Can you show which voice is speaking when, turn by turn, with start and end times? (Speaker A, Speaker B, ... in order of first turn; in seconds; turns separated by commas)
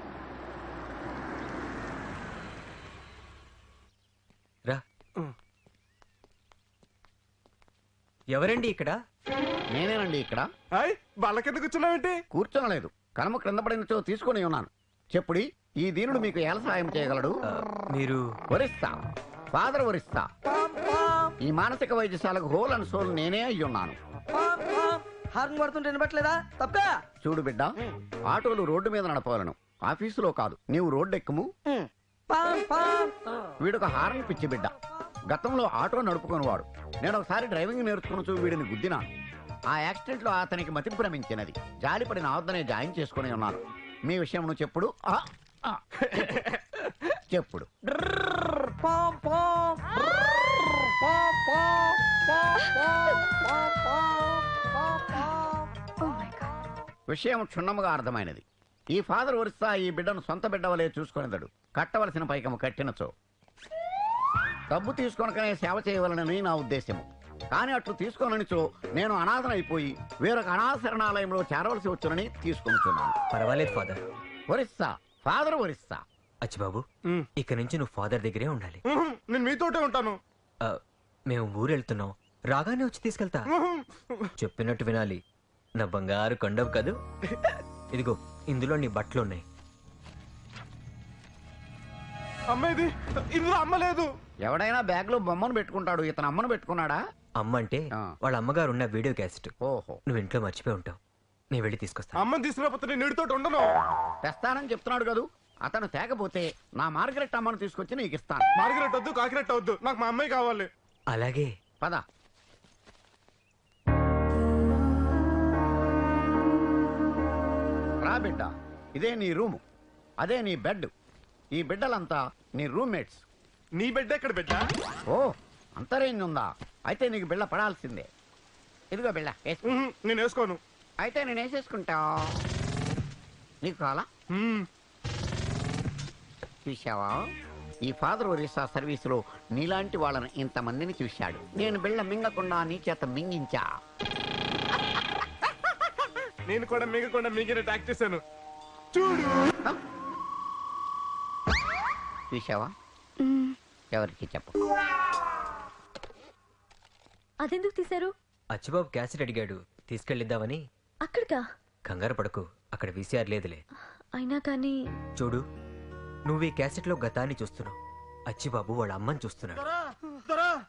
Speaker A: 8.3-9.0, Speaker B: 9.7-10.5, Speaker C: 10.8-12.1, Speaker B: 12.3-17.4, Speaker A: 17.5-18.2, Speaker B: 18.5-19.0, Speaker B: 19.5-20.2, Speaker D: 20.6-21.3, Speaker B: 21.4-23.9, Speaker D: 24.3-26.9, Speaker B: 27.2-27.7, Speaker B: 28.3-31.5, Speaker D: 32.3-33.1, Speaker B: 33.6-34.7, Speaker B: 35.3-39.1, Speaker B: 39.7-45.8, Speaker B: 47.3-47.7, Speaker D: 48.6-49.6, Speaker D: 51.4-51.6, Speaker E: 56.0-56.4, Speaker B: 57.1-58.4, Speaker B: 58.9-63.1, Speaker B: 64.7-73.1, Speaker A: 73.3-74.0, Speaker B: 74.5-76.0, Speaker A: 76.4-76.8, Speaker A: 77.4-78.8, Speaker C: 79.0-80.1, Speaker A: 80.6-83.5, Speaker A: 84.4-85.2, Speaker A: 85.8-87.0, Speaker A: 87.9-89.4, Speaker C: 92.5-94.1, Speaker B: 94.4-97.0, Speaker A: 97.4-99.5, Speaker B: 99.7-100.0, Speaker A: 100.1-101.0, Speaker A: 101.5-102.2, Speaker C: 102.2-103.6, Speaker B: 104.2-108.4, Speaker C: 108.6-110.7, Speaker A: 111.1-111.5, Speaker B: 118.0-119.6, Speaker B: 120.2-120.9, Speaker B: 121.5-123.2, Speaker C: 123.8-124.6, Speaker B: 125.1-128.1, Speaker B: 128.9-129.7, Speaker C: 129.7-130.6, Speaker B: 131.0-132.4, Speaker B: 133.6-134.1, Speaker C: 134.4-134.6, Speaker B: 136.6-137.2, Speaker B: 137.8-143.7, Speaker C: 146.5-148.2, Speaker C: 149.0-149.3, Speaker B: 152.3-152.7, Speaker B: 153.9-154.5, Speaker E: 157.4-158.1, Speaker A: 158.5-160.6, Speaker E: 161.1-161.4, Speaker A: 161.8-163.6, Speaker E: 164.1-164.8, Speaker A: 165.2-165.4, Speaker A: 166.3-167.8, Speaker A: 168.3-169.6